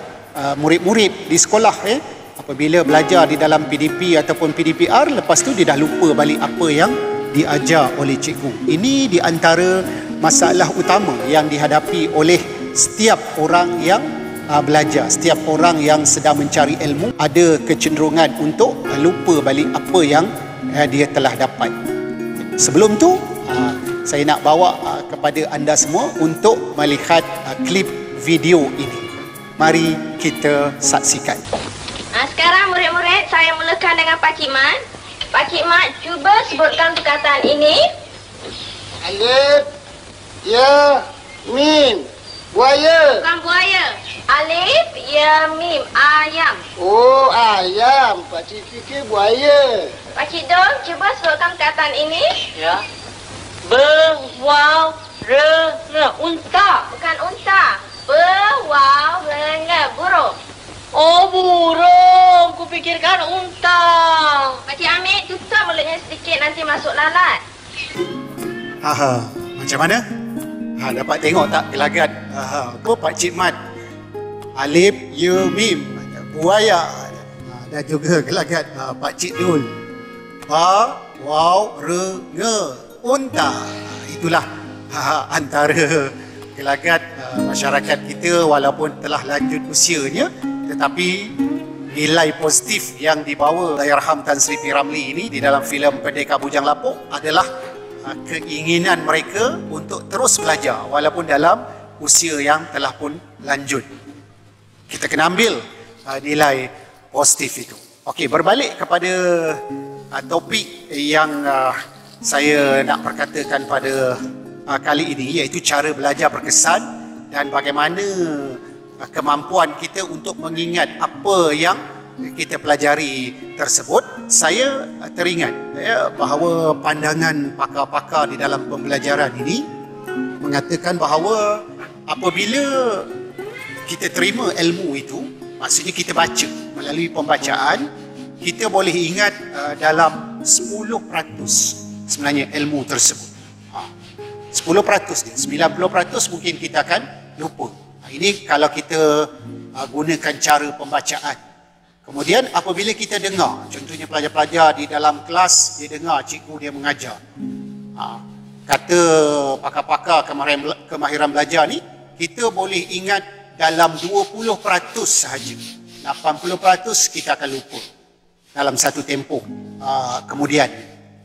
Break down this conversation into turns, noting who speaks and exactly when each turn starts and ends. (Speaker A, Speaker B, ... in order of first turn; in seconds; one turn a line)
Speaker A: 0.3-21.8
Speaker A: 22.6-31.4
Speaker B: 32.1-34.8
Speaker B: 35.3-37.9
Speaker C: 39.0-39.7
Speaker C: 40.4-43.2
Speaker B: 43.2-46.6
Speaker C: 46.8-50.0
Speaker B: 50.1-52.5
Speaker D: 52.5-52.9
Speaker D: 53.7-56.9
Speaker B: 56.9-60.4
Speaker D: 60.9-64.6
Speaker B: 64.7-67.4
Speaker A: 68.8-70.0
Speaker A: 70.8-73.6
Speaker A: 74.6-79.8
Speaker A: 80.5-91.3
Speaker A: 91.9-97.5
Speaker A: 98.0-103.9
Speaker A: 104.9-129.7
Speaker A: 130.4-133.1
Speaker A: 133.9-137.9
Speaker A: 138.4-143.9
Speaker A: 144.5-151.4
Speaker A: 152.1-157.2
Speaker A: 158.0-167.8
Speaker A: 168.6-170.8